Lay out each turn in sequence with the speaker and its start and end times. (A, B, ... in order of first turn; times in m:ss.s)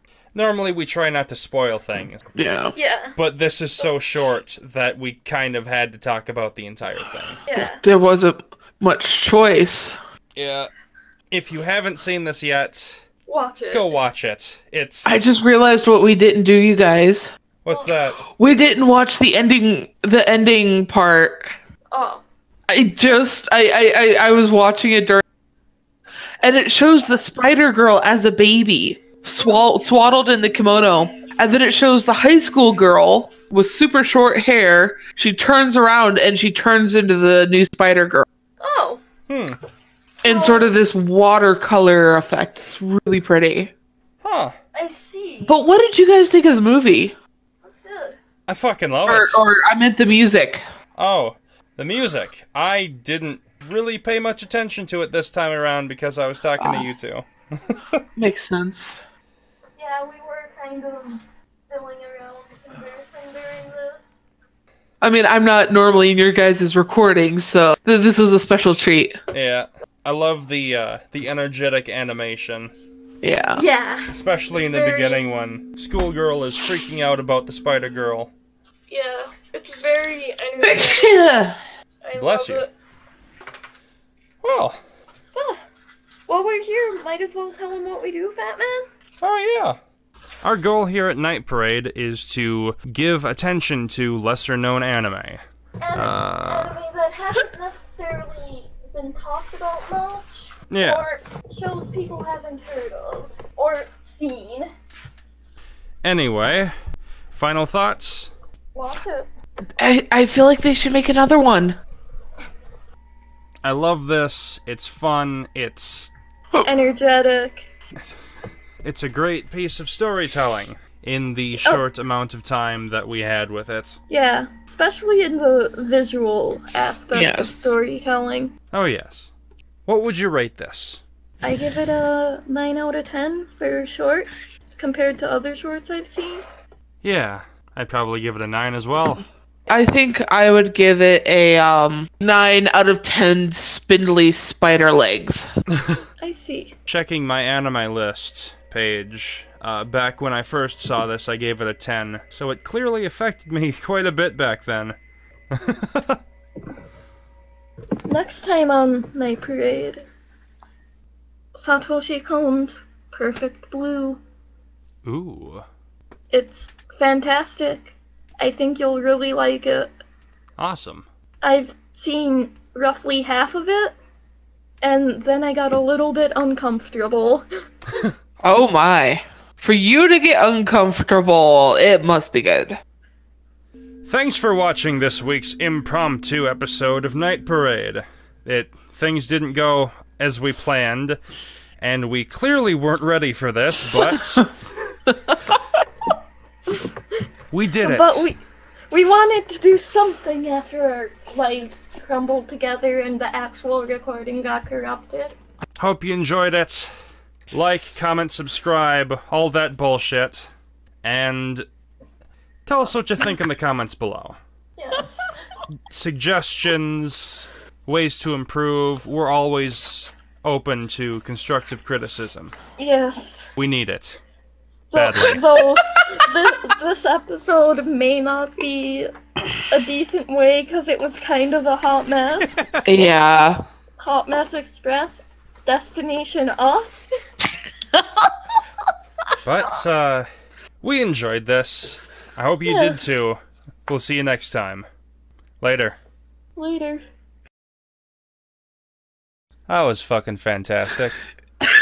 0:00.3-0:02.2 A
0:02.3-0:02.7 B
0:02.7-0:03.2 C
0:03.2-0:07.4 A
0:07.5-0:07.8 C
0:07.5-0:10.0 B
0:10.3-0:10.7 A
0:11.3-0:13.0 A
0:13.3-0:13.9 C
0:13.7-0:15.2 A
0:15.0-0:17.3 B
0:17.6-0:18.2 A
0:18.2-0:21.5 B
0:21.9-0:22.2 C
0:22.7-0:25.2 B
0:26.4-0:38.2 B
0:38.6-0:39.0 C
0:39.3-0:39.6 A
0:40.2-0:40.8 C
0:40.2-0:43.7 B
0:44.2-0:44.5 A
0:44.7-0:45.6 C
0:45.5-0:47.1 B
0:47.7-0:48.2 C
0:48.5-0:49.4 A
0:49.0-0:50.6 B
0:51.0-0:58.0 A
0:56.6-0:56.9 B
0:58.2-0:59.0 B
0:59.8-1:04.0 C
1:05.0-1:09.1 B
1:09.3-1:12.7 A
1:13.2-1:13.6 B
1:13.5-1:15.3 C
1:14.1-1:18.3 A
1:18.9-1:21.5 C
1:20.6-1:21.6 B
1:22.0-1:22.7 C
1:22.2-1:22.7 A
1:24.4-1:24.8 A
1:25.3-1:25.6 C
1:26.3-1:28.9 C
1:29.2-1:29.8 A
1:30.4-1:35.4 A
1:35.8-1:44.7 C
1:35.9-1:36.8 A
1:40.7-1:41.0 A
1:46.0-1:46.7 A
1:47.3-1:48.3 A
1:48.7-1:49.3 C
1:49.8-1:51.8 B
1:53.6-1:56.1 A
1:56.6-1:57.7 C
1:58.8-2:04.0 A
2:04.1-2:08.5 C
2:07.1-2:07.7 B
2:08.7-2:09.3 A
2:09.9-2:11.0 A
2:11.4-2:16.4 C
2:17.0-2:19.2 A
2:19.7-2:25.5 B
2:26.2-2:26.7 C
2:26.8-2:35.0 A
2:35.5-2:36.2 A
2:38.1-2:40.0 C
2:41.5-2:44.2 C
2:45.0-2:45.7 A
2:46.3-2:49.9 C
2:50.6-2:51.1 A
2:51.4-2:53.9 C
2:54.8-2:57.4 C
2:58.4-3:02.8 B
3:04.0-3:11.2 A
3:11.8-3:14.5 A
3:13.9-3:14.4 B
3:15.1-3:15.5 B
3:17.5-3:18.3 A
3:17.8-3:25.4 C
3:25.8-3:26.9 A
3:27.5-3:30.5 A
3:31.0-3:31.6 A
3:32.6-3:34.4 A
3:34.8-3:35.3 C
3:35.9-3:42.5 A
3:42.8-3:43.5 C
3:43.6-3:44.2 A
3:44.9-3:49.1 C
3:44.9-3:45.5 A
3:49.7-3:52.6 C
3:52.4-3:52.8 A
3:52.8-3:53.6 B
3:54.0-3:57.1 C
3:59.4-4:00.3 A
4:00.8-4:04.9 A
4:02.6-4:03.1 C
4:05.6-4:06.0 A
4:06.6-4:07.0 C
4:09.7-4:11.2 A